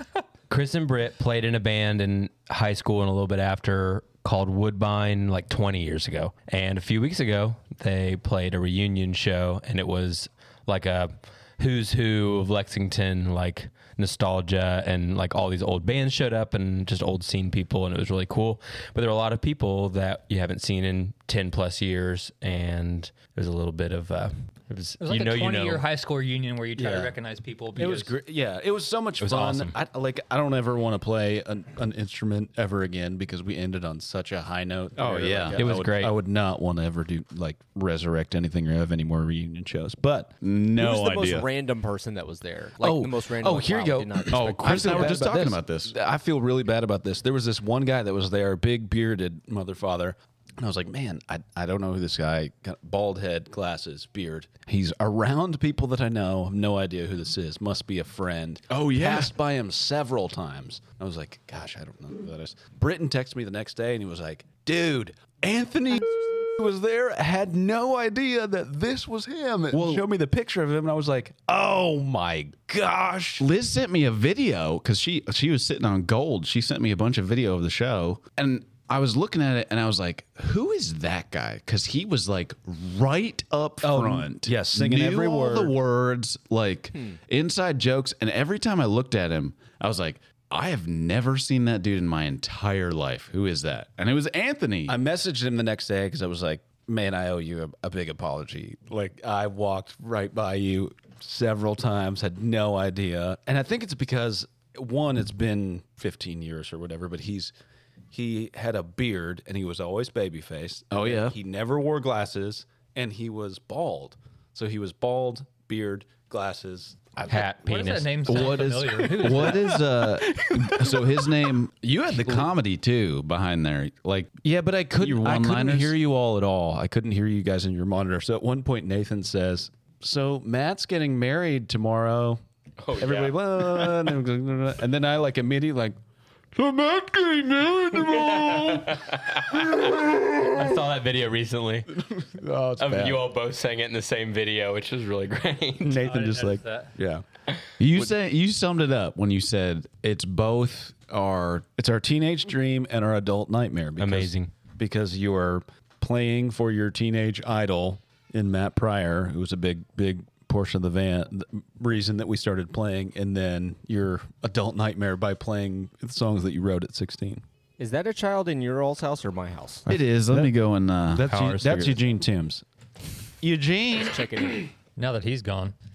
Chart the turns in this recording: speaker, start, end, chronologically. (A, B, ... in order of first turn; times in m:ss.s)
0:00.5-0:25.8 A
0:25.0-0:28.1 B
0:26.8-0:27.1 C
0:27.8-0:40.3 C
0:29.2-0:29.7 A
0:35.0-0:35.6 D
0:35.5-0:36.2 A
0:40.4-0:41.5 D
0:40.8-0:45.2 E
0:42.8-1:13.5 C
0:44.3-0:45.9 D
0:58.7-0:59.3 D
1:09.7-1:10.0 D
1:13.4-1:35.0 D
1:23.8-1:25.8 C
1:34.9-1:47.5 C
1:48.1-1:57.2 C
1:50.9-1:51.4 D
1:57.3-1:58.4 A
1:57.3-1:59.7 B
1:58.2-2:06.0 D
1:59.0-2:01.5 C
2:02.1-2:02.5 C
2:04.9-2:12.4 C
2:12.8-2:14.2 A
2:13.0-2:16.0 C
2:16.5-2:20.7 C
2:18.0-2:19.8 A
2:20.4-2:21.9 A
2:21.9-2:23.2 C
2:22.8-2:26.0 A
2:25.8-2:27.2 C
2:26.0-2:26.9 B
2:27.8-2:31.7 D
2:31.7-2:47.4 C
2:34.0-2:34.5 A
2:47.8-2:49.8 E
2:49.9-2:52.0 D
2:49.9-2:50.5 C
2:51.1-2:52.6 C
2:53.4-2:54.1 D
2:54.0-2:54.7 E
2:55.0-2:55.8 B